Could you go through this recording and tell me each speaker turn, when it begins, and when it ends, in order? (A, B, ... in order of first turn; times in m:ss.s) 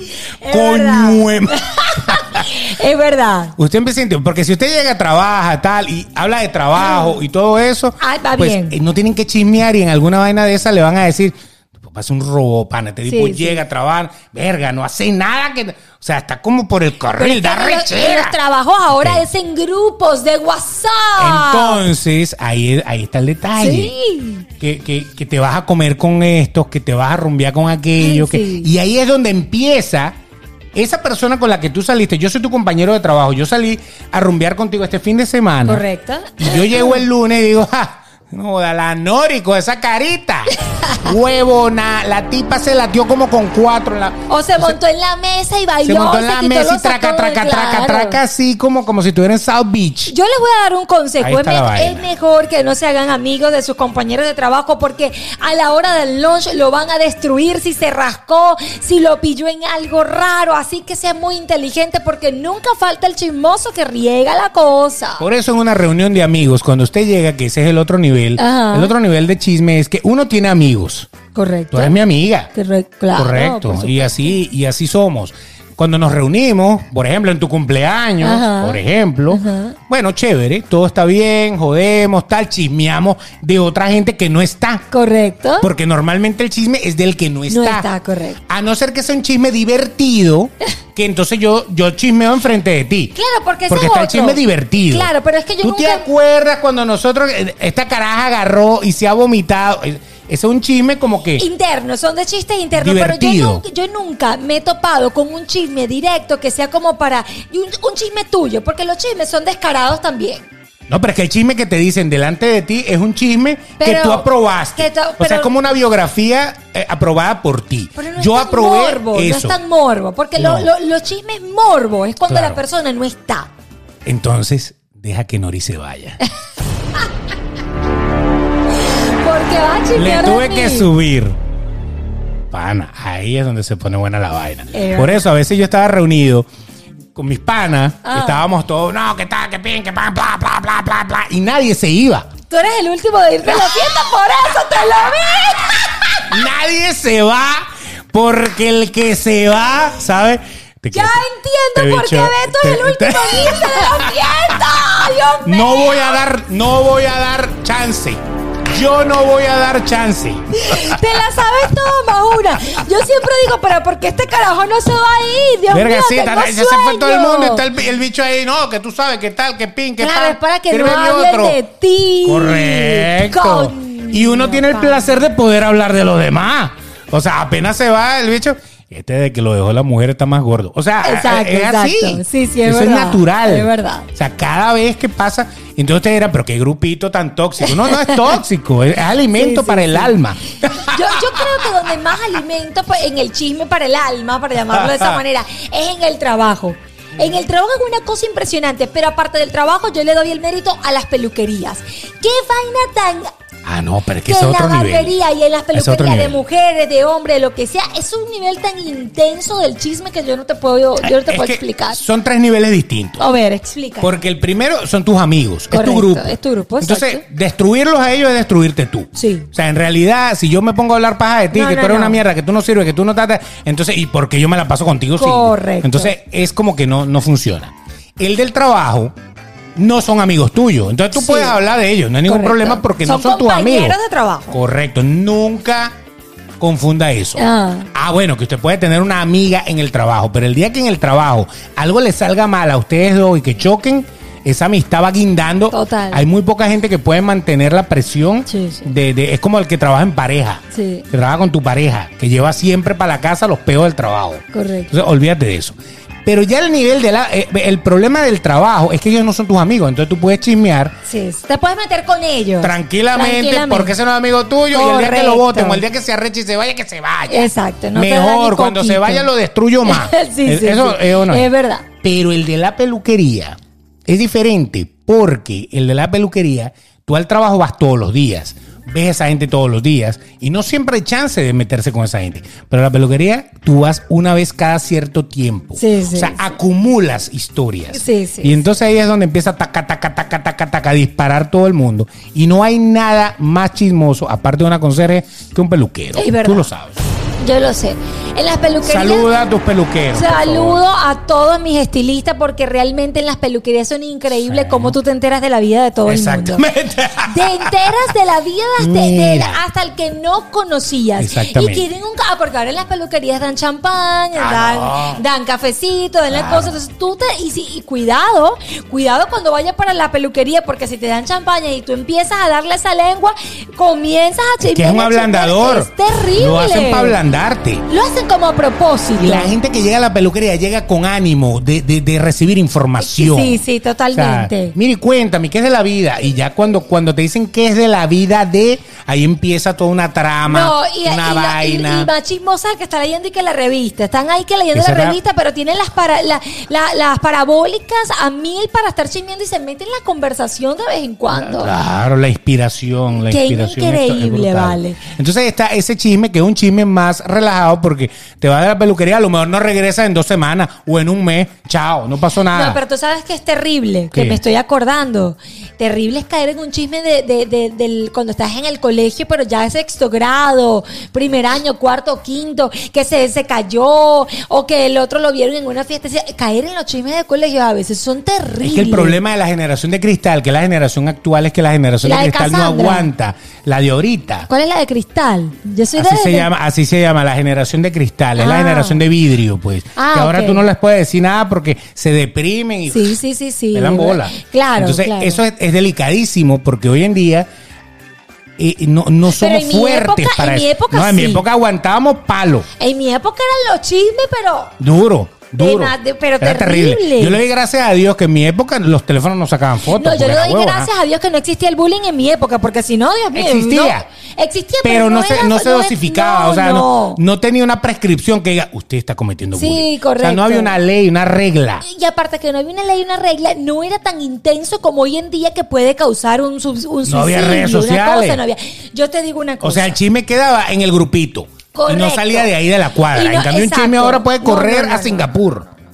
0:00.4-0:03.6 A
0:00.5-0:02.5 B
0:03.6-0:18.4 B
0:06.8-0:07.2 A
0:08.0-0:08.8 A
0:13.1-0:13.6 A
0:17.2-0:21.8 A
0:18.9-0:19.2 B
0:21.2-0:23.9 B
0:23.6-0:24.5 A
0:24.6-0:30.2 B
0:28.0-0:28.7 A
0:30.8-0:35.8 B
0:35.7-0:37.0 A
0:36.4-0:44.8 B
0:40.6-0:41.1 A
0:44.3-0:48.2 A
0:45.8-0:50.1 B
0:50.1-1:05.3 A
0:51.2-0:52.0 B
1:05.2-1:11.1 B
1:08.4-1:08.9 A
1:11.4-1:12.0 A
1:11.7-1:12.5 B
1:12.6-1:14.4 A
1:13.2-1:24.9 B
1:18.2-1:18.8 A
1:19.3-1:19.8 A
1:24.9-1:25.7 A
1:25.6-1:27.9 B
1:27.5-1:28.4 A
1:28.5-1:33.2 B
1:33.2-1:36.1 A
1:33.7-1:35.1 B
1:35.6-1:41.4 B
1:41.4-1:50.5 A
1:42.8-1:43.6 B
1:50.9-1:59.6 B
1:53.8-1:55.5 A
1:58.0-2:03.5 A
2:00.4-2:00.7 B
2:02.3-2:02.6 B
2:04.0-2:06.2 B
2:08.7-2:10.9 A
2:10.0-2:11.4 B
2:12.5-2:16.5 B
2:14.7-2:15.2 A
2:17.2-2:22.3 B
2:18.0-2:18.4 A
2:22.5-2:26.4 A
2:23.5-2:24.0 B
2:26.3-2:31.2 B
2:30.9-2:36.2 A
2:31.8-2:34.8 B
2:35.4-2:41.4 B
2:40.5-2:47.6 A
2:45.7-2:51.6 B
2:50.0-2:55.2 A
2:52.2-3:11.9 B
3:01.0-3:04.1 A
3:07.6-3:08.4 A
3:09.4-3:10.2 A
3:10.7-3:23.3 A
3:14.7-3:15.2 B
3:23.6-3:25.1 B
3:24.2-3:32.0 A
3:25.7-3:26.4 B
3:31.0-3:33.3 B
3:33.2-3:34.2 A
3:34.0-3:49.1 B
3:35.7-3:37.2 A
3:39.2-3:39.5 A
3:41.5-3:42.2 A
3:45.2-3:46.1 A
3:49.8-3:54.0 B
3:51.1-3:51.6 A
3:52.3-3:54.6 A
3:54.5-3:56.0 B
3:56.6-4:21.0 B
3:57.4-3:57.9 A
4:05.7-4:06.2 A
4:08.5-4:08.9 A
4:10.7-4:11.1 A
4:14.5-4:14.9 A
4:21.1-4:24.0 A
4:22.6-4:31.5 B
4:24.7-4:25.8 A
4:27.3-4:29.3 A
4:29.8-4:31.9 A
4:32.0-4:57.0 B
4:45.8-4:46.5 A
4:47.9-4:48.6 A
4:56.2-4:56.7 A
4:57.4-4:59.3 A
4:58.8-5:00.8 B
5:00.1-5:06.6 A
5:04.5-5:05.0 B
5:06.1-5:08.1 B
5:07.2-5:27.2 A
5:08.8-5:09.6 B
5:11.2-5:11.9 B
5:14.4-5:15.2 B
5:16.3-5:16.8 B
5:24.6-5:27.9 B
5:27.9-5:29.6 A
5:29.2-5:42.1 B
5:33.0-5:34.8 A
5:40.5-5:51.7 A
5:44.7-5:45.2 B
5:51.3-6:02.8 B
5:53.2-5:55.0 A
6:02.5-6:19.2 A
6:04.1-6:04.4 B
6:18.6-6:24.5 B
6:22.0-6:23.1 A
6:24.5-6:26.5 A
6:26.0-6:33.1 B
6:28.4-6:29.0 A
6:30.0-6:30.6 A
6:32.9-6:35.4 A
6:33.7-6:37.5 B
6:38.6-6:42.7 B
6:39.3-6:41.4 A
6:42.8-6:44.7 A
6:44.8-6:50.9 B
6:45.6-6:47.4 A
6:49.9-6:57.2 A
6:53.3-6:54.0 B
6:54.8-7:01.8 B
6:59.6-7:00.7 A
7:01.8-7:10.0 A
7:07.0-7:08.4 B
7:09.6-7:15.7 B
7:11.7-7:12.5 A
7:13.1-7:15.3 A